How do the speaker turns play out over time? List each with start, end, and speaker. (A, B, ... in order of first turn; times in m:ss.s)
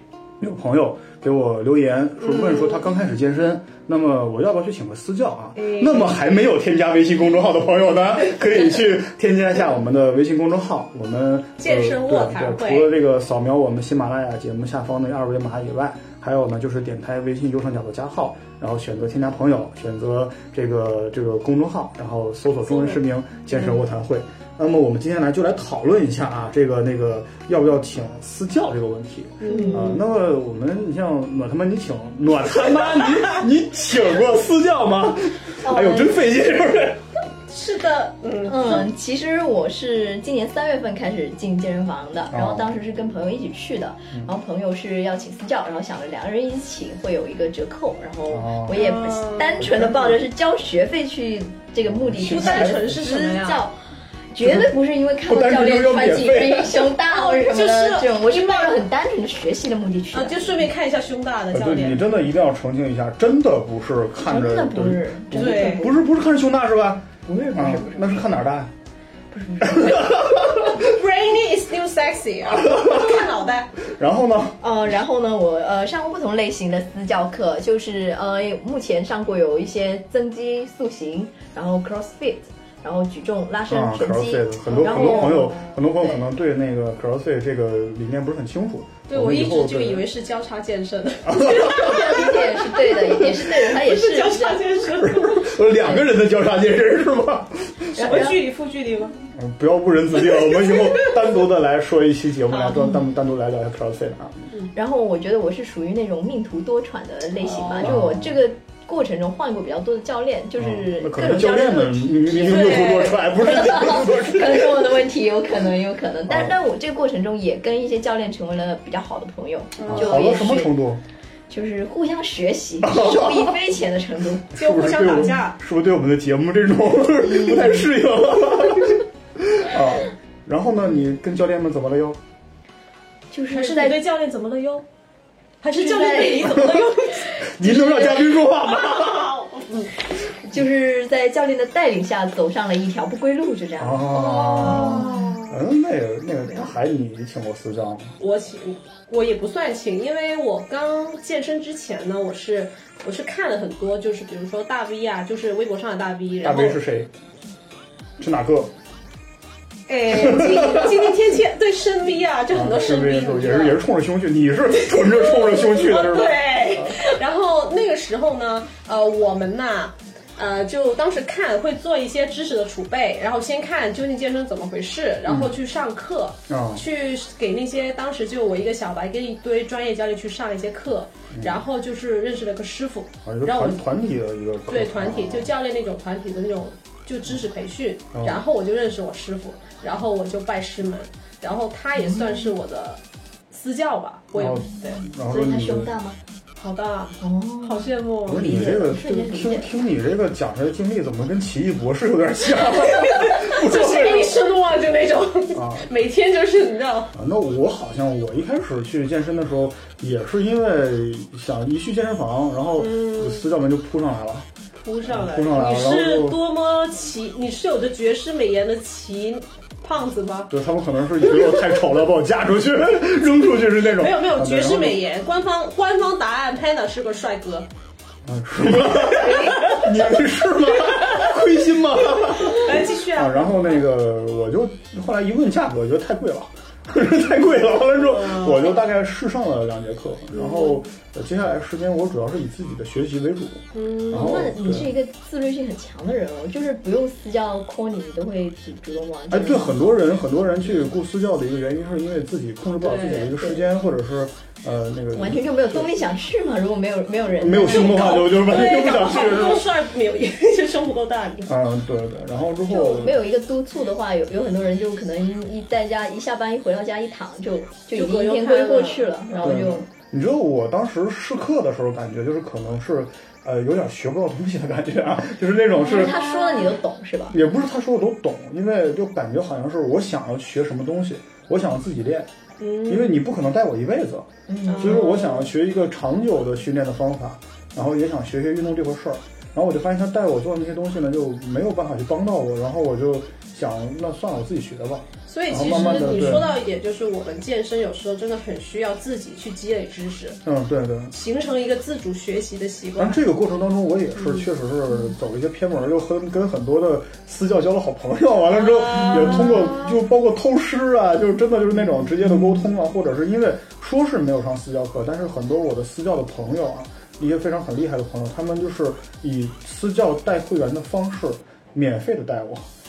0:00.4-0:37.0 A
0:02.2-0:02.8 B
0:05.6-0:06.3 B
0:11.6-0:12.9 B
0:22.6-0:23.0 B
0:29.4-0:30.0 B
0:29.4-0:30.0 C
0:33.0-0:33.4 B
0:35.6-0:36.2 C
0:37.5-0:38.9 B
0:38.4-0:53.7 C
0:42.3-0:42.7 A
0:48.3-0:48.9 A
0:48.7-0:49.6 B
0:49.6-0:50.2 A
0:51.8-0:53.0 A
0:52.2-0:53.7 B
0:54.3-1:00.6 C
0:54.4-0:56.9 A
0:57.1-0:58.8 B
1:00.1-1:02.0 B
1:01.5-1:08.7 A
1:04.2-1:06.0 C
1:05.3-1:05.8 B
1:07.2-1:08.0 C
1:09.3-1:10.2 C
1:09.6-1:10.9 A
1:10.6-1:13.7 B
1:12.5-1:13.3 A
1:13.8-1:14.6 A
1:14.6-1:26.2 C
1:23.7-1:30.1 A
1:24.7-1:25.5 B
1:29.1-1:35.6 B
1:31.2-1:32.0 A
1:31.4-1:34.6 C
1:34.9-1:37.9 A
1:35.8-1:36.0 C
1:37.9-1:38.4 C
1:38.0-1:39.1 B
1:39.3-1:44.5 A
1:40.3-1:41.1 B
1:42.5-1:42.8 B
1:42.5-1:43.0 C
1:44.7-2:00.7 C
1:47.4-1:47.9 B
1:47.8-1:48.4 A
1:50.6-1:55.0 A
1:52.4-1:53.2 B
1:56.3-1:56.5 A
1:59.8-2:00.4 B
1:59.9-2:01.0 A
2:01.5-2:04.5 C
2:02.8-2:03.6 A
2:04.5-2:12.2 A
2:04.5-2:05.6 B
2:07.2-2:07.8 C
2:13.3-2:14.0 C
2:13.5-2:14.8 B
2:15.6-2:19.9 B
2:15.7-2:16.7 C
2:17.4-2:19.4 A
2:17.6-2:17.9 C
2:20.4-2:25.4 C
2:23.8-2:28.2 A
2:24.1-2:25.5 B
2:28.2-2:36.8 B
2:36.4-2:37.1 A
2:38.2-2:38.7 A
2:39.9-2:43.8 B
2:40.1-2:41.2 A
2:42.5-2:47.0 A
2:44.9-3:03.8 B
2:55.2-2:55.5 A
2:56.5-2:56.8 A
3:01.3-3:01.6 A
3:03.2-3:05.5 A
3:04.7-3:15.0 B
3:08.1-3:08.4 A
3:12.0-3:12.5 C
3:14.4-3:15.9 A
3:14.9-3:16.2 C
3:16.6-3:19.0 B
3:17.2-3:19.7 C
3:18.2-3:24.4 A
3:22.6-3:27.1 B
3:25.5-3:25.9 A
3:27.1-3:34.5 A
3:32.8-3:33.5 B
3:34.8-3:40.5 B
3:35.0-3:36.4 A
3:40.5-3:45.0 A
3:41.3-3:41.7 B
3:43.8-3:47.7 B
3:48.2-4:04.9 A
3:48.9-3:51.4 B
3:49.2-3:49.7 C
3:52.0-3:53.8 B
3:57.9-3:58.8 B
4:00.3-4:00.8 B
4:03.7-4:04.5 B
4:04.1-4:09.8 C
4:09.3-4:15.9 A
4:12.8-4:13.4 B
4:15.1-4:19.0 C
4:17.4-4:19.6 A
4:17.6-4:21.5 B
4:21.4-4:23.2 A
4:22.7-4:29.9 C
4:27.9-4:29.2 B
4:29.4-4:36.2 A
4:35.8-4:37.4 C
4:36.0-4:36.7 B
4:37.3-4:42.3 A
4:42.6-4:43.2 B
4:42.9-4:44.3 A
4:44.5-4:45.1 C
4:44.7-4:45.5 B
4:44.8-4:56.5 A
4:55.3-5:00.4 B
5:00.4-5:01.1 A
5:01.1-5:03.2 B
5:03.0-5:22.7 A
5:04.2-5:04.5 B
5:08.5-5:10.0 B